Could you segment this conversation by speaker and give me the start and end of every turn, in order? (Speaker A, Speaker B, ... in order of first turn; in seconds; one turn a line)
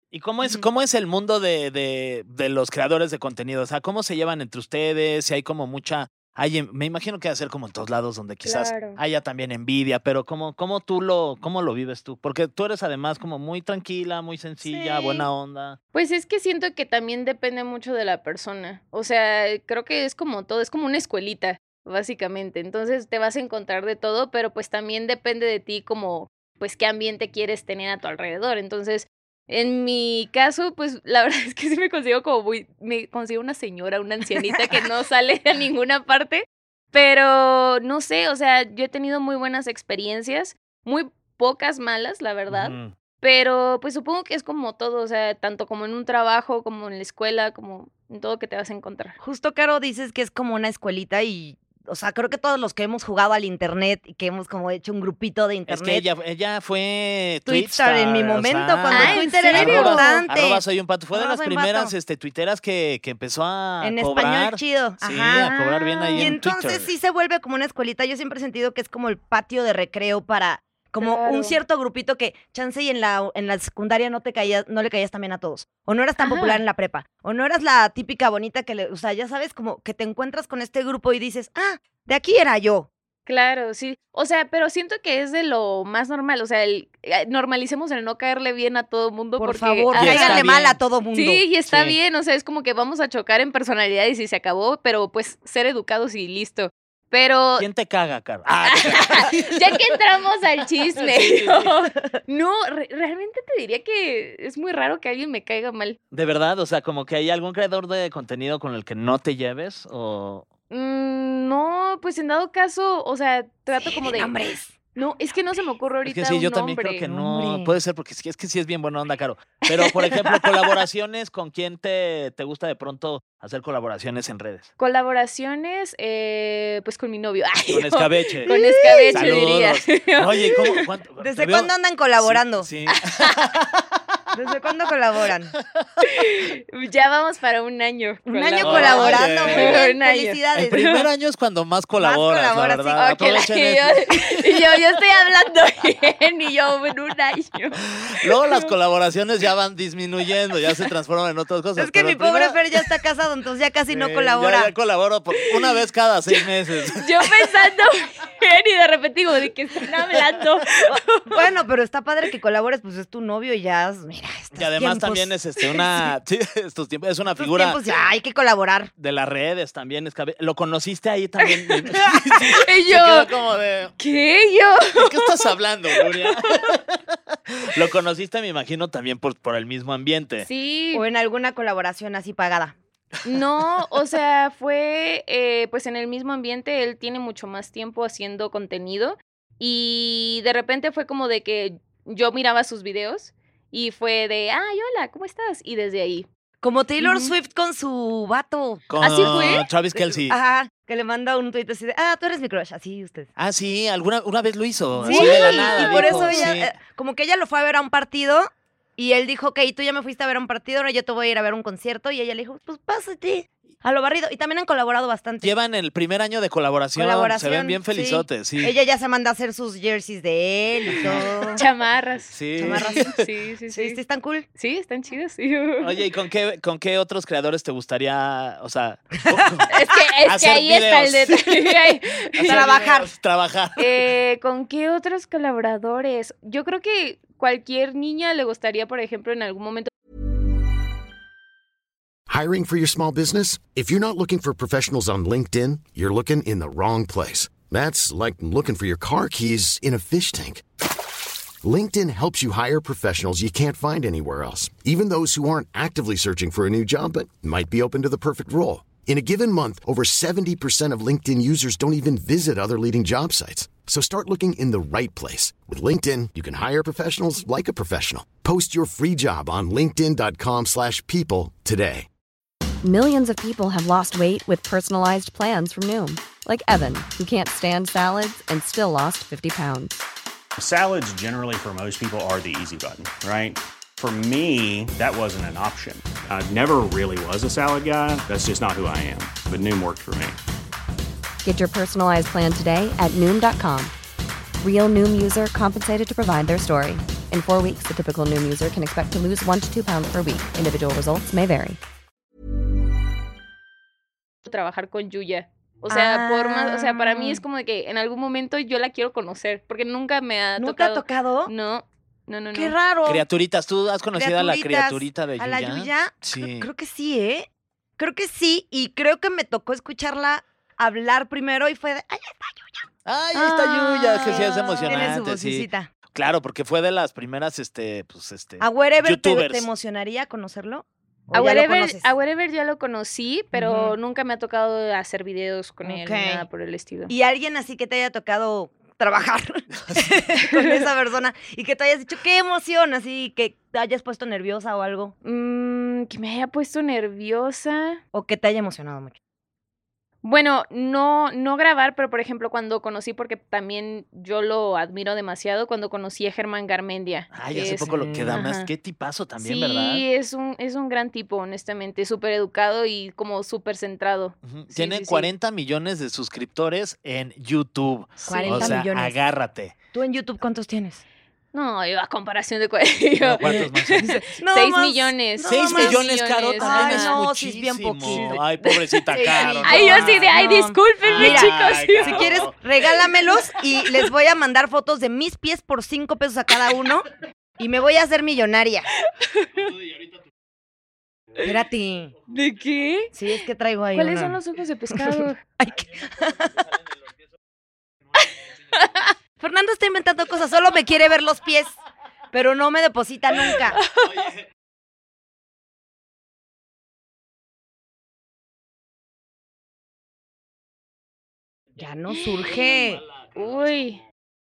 Speaker A: 0.1-15.8
Speaker B: 8.4-9.0
Speaker C: 14.6-15.2
Speaker B: 15.9-49.2
Speaker A: 42.5-42.9
Speaker C: 49.2-56.1
Speaker A: 55.7-66.9
Speaker C: 57.5-61.9
Speaker B: 58.9-60.2
Speaker C: 63.8-65.5
Speaker B: 65.4-66.2
Speaker C: 66.1-82.9
Speaker B: 71.0-71.6
Speaker B: 76.2-76.6
Speaker B: 83.3-90.5
Speaker C: 89.4-91.4
Speaker A: 89.9-90.8
Speaker B: 91.1-97.7
Speaker A: 91.7-92.0
Speaker A: 97.6-99.9
Speaker B: 98.7-106.0
Speaker A: 100.9-101.7
Speaker A: 106.1-110.5
Speaker B: 110.7-114.3
Speaker C: 113.7-114.8
Speaker B: 114.9-117.0
Speaker A: 116.0-124.7
Speaker C: 117.1-117.7
Speaker B: 124.8-130.8
Speaker A: 127.7-128.5
Speaker C: 128.4-129.5
Speaker A: 129.1-133.8
Speaker C: 131.2-132.7
Speaker B: 132.9-133.3
Speaker C: 134.3-135.5
Speaker B: 136.0-141.0
Speaker C: 138.2-140.8
Speaker A: 138.6-139.8
Speaker A: 140.5-144.5
Speaker C: 141.9-143.2
Speaker B: 142.9-148.7
Speaker A: 148.0-152.6
Speaker C: 151.8-154.7
Speaker A: 153.9-157.3
Speaker B: 157.0-161.4
Speaker C: 161.3-165.3
Speaker A: 164.5-167.8
Speaker C: 167.4-168.9
Speaker A: 169.0-173.9
Speaker B: 171.4-173.3
Speaker B: 174.0-175.4
Speaker A: 174.9-180.5
Speaker B: 180.4-181.0
Speaker C: 180.9-182.7
Speaker B: 183.2-196.3
Speaker C: 196.6-203.3
Speaker B: 197.0-197.3
Speaker A: 198.9-200.4
Speaker B: 199.0-199.6
Speaker A: 203.4-206.7
Speaker C: 205.0-215.5
Speaker B: 205.0-206.5
Speaker A: 215.4-218.7
Speaker C: 216.9-221.6
Speaker A: 220.9-221.2
Speaker B: 221.1-224.0
Speaker A: 222.3-223.2
Speaker C: 222.6-223.1
Speaker C: 223.7-224.4
Speaker B: 224.6-225.9
Speaker A: 225.8-229.7
Speaker B: 229.7-232.7
Speaker A: 230.2-234.1
Speaker C: 232.4-233.1
Speaker B: 233.8-239.9
Speaker D: 242.3-250.6
Speaker D: 251.6-272.1
Speaker E: 272.8-280.0
Speaker F: 280.6-290.4
Speaker E: 291.4-293.9
Speaker E: 294.6-301.8
Speaker B: 304.4-312.7
Speaker C: 305.9-307.4
Speaker C: 310.6-311.5
Speaker C: 312.5-313.2
Speaker A: 313.1-316.7
Speaker C: 314.1-322.8
Speaker A: 323.1-329.7
Speaker C: 323.3-325.9
Speaker B: 324.2-325.1
Speaker C: 328.6-332.1
Speaker B: 331.3-337.1
Speaker C: 333.5-333.9
Speaker C: 335.8-336.4
Speaker C: 337.1-345.1
Speaker A: 339.8-340.1
Speaker B: 340.5-340.9
Speaker B: 345.2-348.0
Speaker C: 348.1-349.1
Speaker B: 350.2-358.7
Speaker A: 357.3-360.0
Speaker C: 357.9-358.4
Speaker B: 359.4-365.3
Speaker A: 364.4-369.7
Speaker B: 368.2-368.8
Speaker C: 368.3-369.1
Speaker C: 369.9-371.0
Speaker B: 371.5-377.2
Speaker A: 373.2-374.1
Speaker C: 373.4-376.0
Speaker A: 375.4-380.4
Speaker C: 376.6-378.4
Speaker B: 378.1-382.3
Speaker C: 379.1-387.1
Speaker A: 381.0-382.5
Speaker C: 387.6-388.9
Speaker B: 389.2-389.7
Speaker C: 391.4-392.1
Speaker B: 392.3-393.4
Speaker C: 393.1-394.4
Speaker B: 393.9-395.4
Speaker C: 394.9-396.6
Speaker B: 398.2-399.1
Speaker C: 399.4-401.8
Speaker C: 402.3-403.8
Speaker B: 403.8-404.3
Speaker C: 411.8-413.0
Speaker B: 412.1-412.7
Speaker B: 413.3-414.0